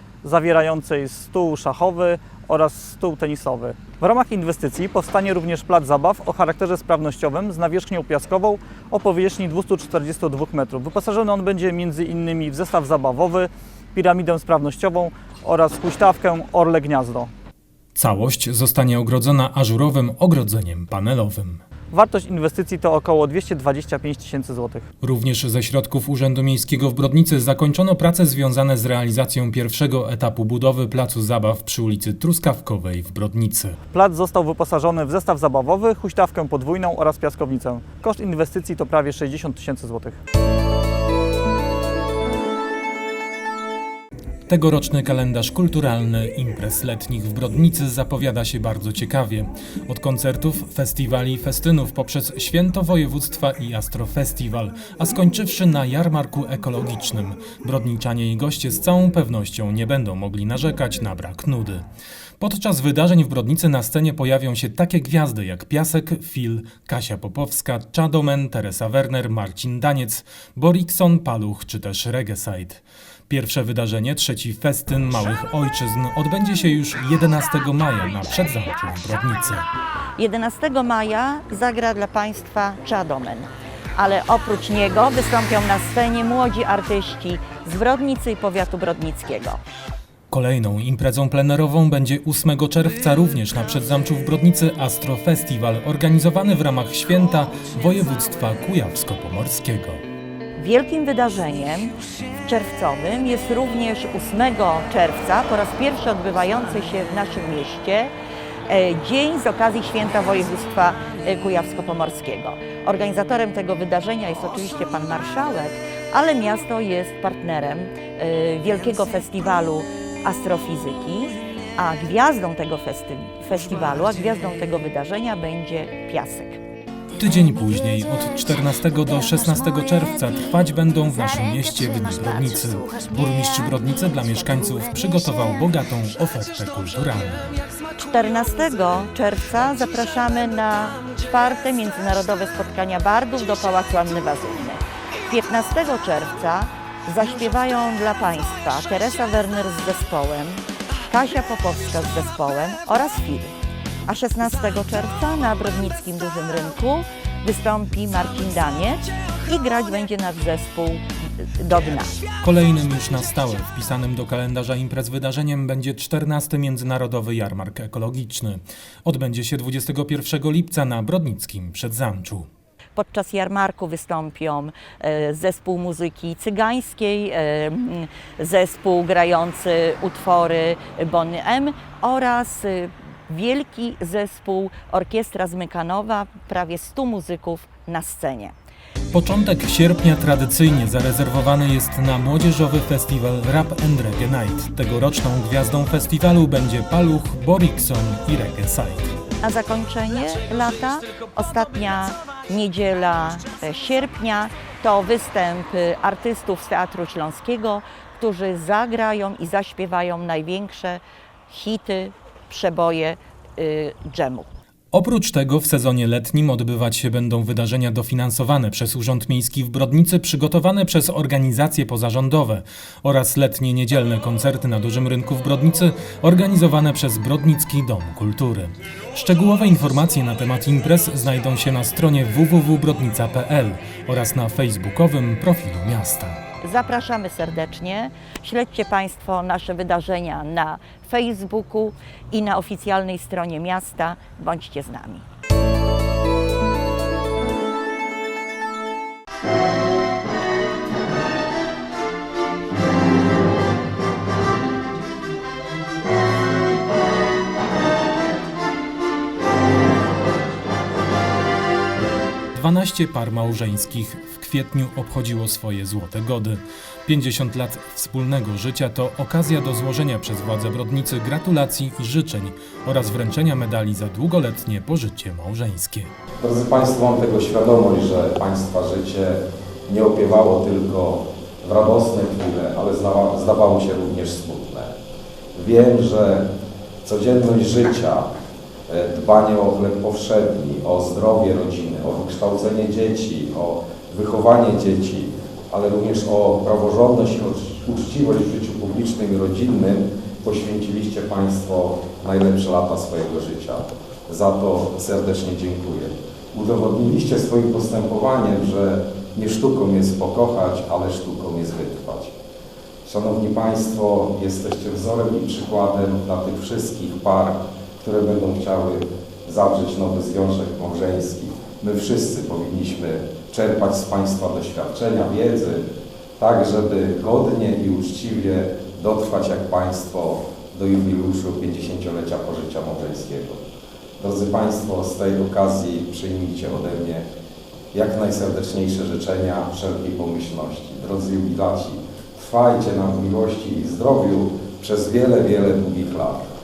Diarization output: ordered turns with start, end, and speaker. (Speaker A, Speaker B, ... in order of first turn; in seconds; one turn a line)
Speaker A: 0.2-17.3
Speaker B: 17.9-21.6
Speaker A: 21.9-24.9
Speaker B: 25.0-33.8
Speaker A: 33.9-40.2
Speaker B: 44.5-61.8
Speaker B: 62.4-79.7
Speaker C: 80.2-89.6
Speaker B: 90.3-100.0
Speaker C: 100.6-108.1
Speaker C: 108.7-126.6
Speaker B: 127.2-137.5
Speaker C: 138.1-162.2
Speaker B: 162.4-172.5
Speaker C: 172.9-188.5
Speaker B: 189.1-199.2
Speaker C: 199.4-214.5
Speaker B: 214.9-236.4
Speaker C: 236.6-245.2
Speaker B: 262.5-276.1
Speaker D: 276.4-284.9
Speaker D: 285.5-286.5
Speaker D: 287.0-288.3
Speaker D: 288.9-312.4
Speaker D: 313.0-325.9
Speaker D: 326.4-333.6
Speaker D: 334.2-337.2
Speaker D: 337.9-346.5